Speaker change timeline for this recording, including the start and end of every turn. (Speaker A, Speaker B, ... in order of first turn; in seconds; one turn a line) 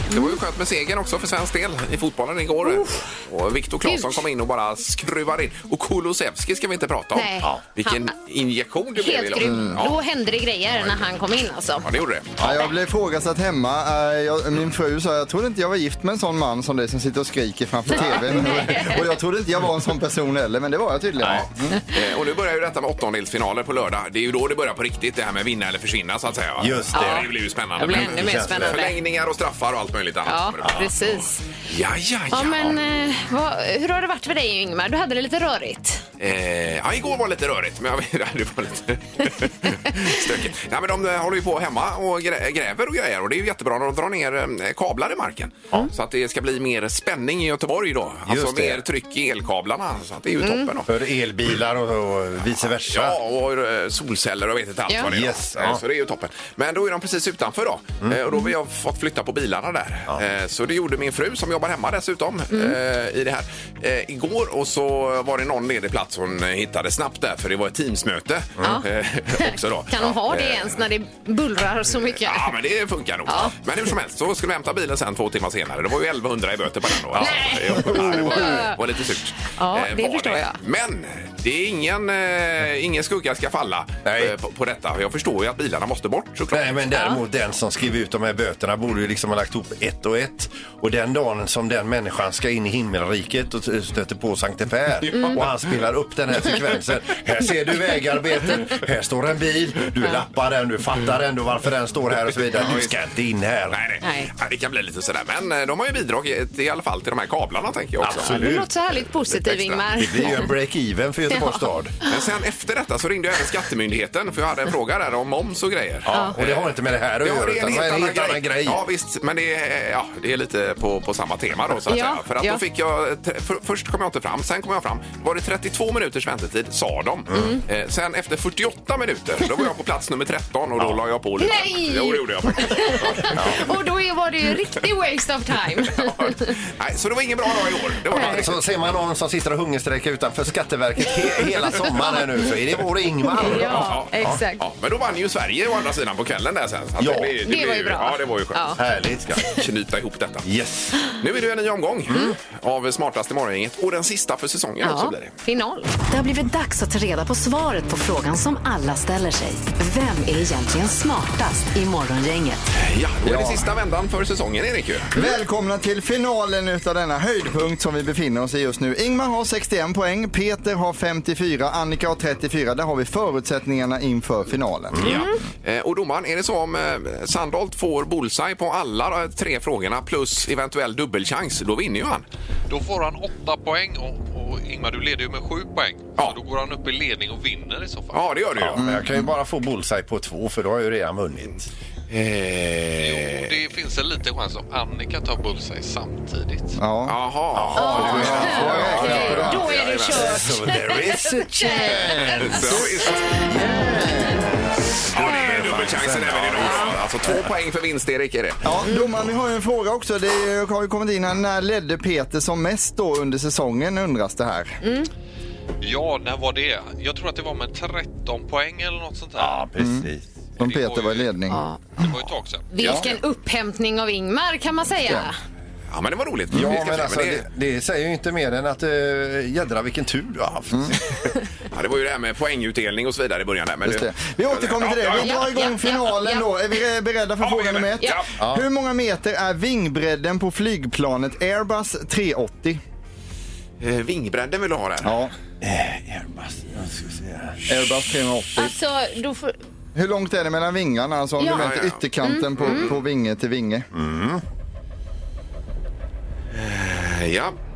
Speaker A: 0.1-0.4
Speaker B: 0.1-10.0
Speaker A: 2.6-2.9
Speaker A: 3.9-4.2
Speaker A: 7.1-8.1
Speaker A: 9.0-11.9
Speaker C: 9.4-9.8
Speaker B: 10.8-11.0
Speaker B: 11.8-12.4
Speaker D: 12.4-12.7
Speaker C: 12.4-21.8
Speaker A: 17.9-19.1
Speaker D: 21.2-21.5
Speaker B: 21.9-32.8
Speaker D: 26.6-28.8
Speaker A: 26.9-29.0
Speaker A: 30.3-31.5
Speaker D: 30.6-30.9
Speaker A: 32.3-36.0
Speaker B: 36.2-50.9
Speaker D: 48.3-48.8
Speaker A: 50.4-50.7
Speaker D: 50.9-53.2
Speaker B: 52.9-70.8
Speaker D: 55.0-55.8
Speaker A: 62.5-62.8
Speaker A: 68.6-68.9
Speaker A: 69.4-72.5
Speaker B: 72.1-86.7
Speaker A: 73.3-73.6
Speaker D: 77.1-78.7
Speaker A: 77.2-78.8
Speaker A: 79.6-80.6
Speaker D: 84.0-84.3
Speaker D: 86.5-103.8
Speaker A: 86.9-87.2
Speaker B: 95.1-95.5
Speaker A: 95.1-95.4
Speaker B: 102.6-102.9
Speaker B: 103.7-108.5
Speaker A: 104.0-104.3
Speaker D: 108.0-108.7
Speaker A: 108.2-110.5
Speaker B: 109.3-109.8
Speaker D: 110.0-112.0
Speaker A: 111.3-111.7
Speaker B: 112.1-116.7
Speaker D: 116.1-118.8
Speaker A: 116.1-116.4
Speaker B: 117.2-133.6
Speaker A: 121.9-122.6
Speaker D: 127.3-127.6
Speaker A: 127.3-127.6
Speaker A: 131.4-136.5
Speaker D: 133.3-133.7
Speaker B: 136.0-138.7
Speaker A: 138.1-138.4
Speaker D: 138.1-144.4
Speaker A: 141.8-142.5
Speaker A: 143.3-144.6
Speaker B: 143.5-150.5
Speaker D: 147.0-147.4
Speaker A: 147.4-148.8
Speaker D: 148.8-149.4
Speaker D: 150.4-151.0
Speaker B: 151.2-155.3
Speaker D: 152.1-152.4
Speaker A: 154.8-155.9
Speaker E: 156.1-162.7
Speaker B: 162.8-165.1
Speaker C: 163.2-163.7
Speaker C: 165.1-175.2
Speaker D: 174.9-175.2
Speaker A: 175.0-175.3
Speaker B: 175.1-182.3
Speaker F: 182.7-188.3
Speaker B: 188.1-188.8
Speaker D: 188.6-191.7
Speaker C: 188.8-189.3
Speaker B: 192.1-193.5
Speaker F: 193.0-196.8
Speaker C: 196.8-197.1
Speaker B: 197.1-200.4
Speaker D: 197.5-202.8
Speaker A: 197.8-204.4
Speaker C: 197.9-199.7
Speaker B: 202.4-203.2
Speaker D: 203.5-207.5
Speaker C: 203.7-204.2
Speaker B: 205.1-208.6
Speaker A: 205.2-205.7
Speaker A: 206.6-206.9
Speaker C: 208.6-214.8
Speaker A: 214.8-215.1
Speaker F: 215.8-219.7
Speaker D: 219.4-220.3
Speaker C: 219.8-221.6
Speaker F: 220.6-221.3
Speaker A: 221.5-221.8
Speaker F: 222.0-223.0
Speaker A: 222.7-225.4
Speaker B: 225.9-227.4
Speaker D: 226.5-231.0
Speaker B: 231.7-235.7
Speaker C: 233.8-242.8
Speaker A: 235.2-236.5
Speaker B: 237.4-238.3
Speaker D: 238.4-238.7
Speaker B: 243.8-245.2
Speaker C: 245.0-245.3
Speaker D: 245.6-247.6
Speaker C: 247.7-248.7
Speaker A: 248.6-249.6
Speaker C: 249.9-253.9
Speaker A: 251.4-251.7
Speaker B: 251.5-252.0
Speaker A: 252.2-252.9
Speaker B: 252.6-253.0
Speaker D: 253.9-254.4
Speaker B: 256.5-257.6